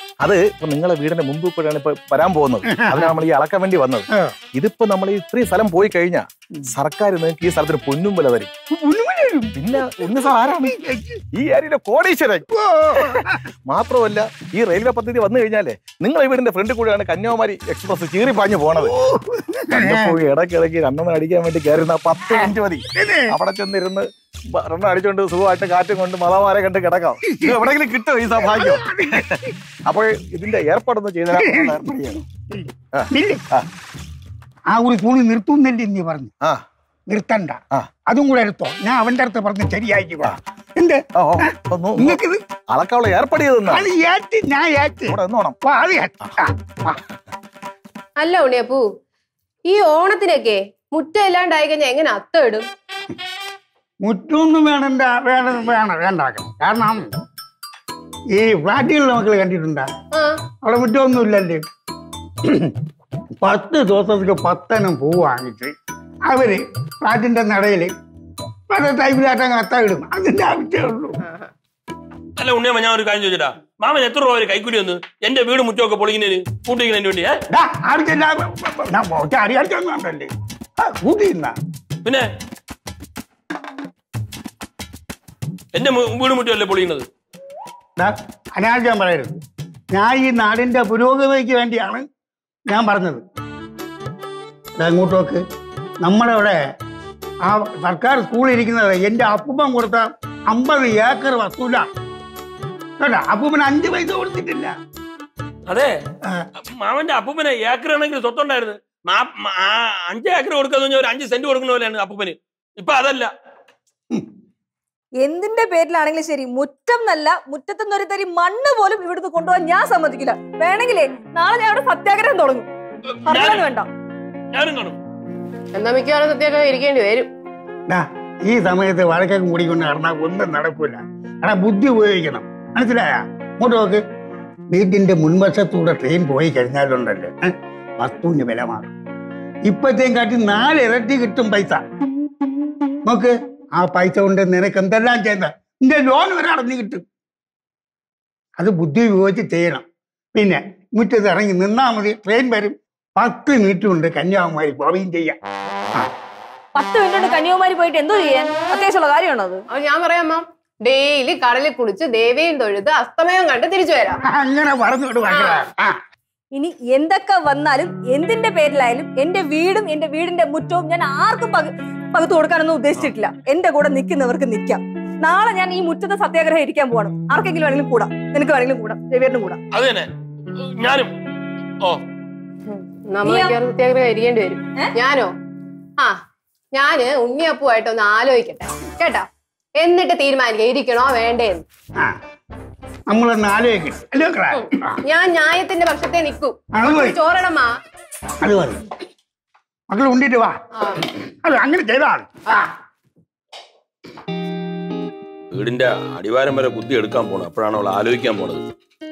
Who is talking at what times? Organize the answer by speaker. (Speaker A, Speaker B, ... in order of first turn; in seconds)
Speaker A: 0.2-8.5, 9.5-10.7, 11.3-18.9, 19.7-31.9, 32.9-33.7, 41.1-42.2, 42.7-43.9, 45.1-45.6
Speaker B: 2.7-3.1, 8.7-11.2, 12.6-13.3, 18.8-20.2, 22.3-23.3, 28.4-29.4, 31.3-33.4, 34.7-36.3, 37.1-42.4, 43.7-47.0, 54.0-57.1, 58.4-59.9, 60.6-61.6, 63.4-65.7, 66.3-67.9, 68.7-71.2, 77.5-81.5, 88.0-89.4, 89.9-92.1, 92.7-93.2, 94.8-95.4, 96.0-96.6, 97.4-101.9, 103.0-104.7, 127.9-134.0, 134.7-138.9, 139.7-141.8, 143.1-147.0, 148.6-155.4, 164.3-165.9, 193.1-195.0, 196.8-197.2, 198.4-198.8, 199.9-200.6, 201.4-202.3
Speaker C: 48.2-48.8, 49.7-52.7, 60.1-60.4, 125.7-127.3, 159.7-164.2, 165.2-165.6, 182.7-185.3, 186.7-189.3, 189.8-191.6, 194.5-197.7
Speaker D: 72.4-77.4, 85.7-87.1, 105.7-106.0, 106.7-113.3, 123.1-123.6, 124.5-125.0, 179.7-181.1, 205.5-208.6
Speaker E: 115.2-122.7, 123.2-123.9, 156.8-159.6, 166.5-179.6, 183.2-183.6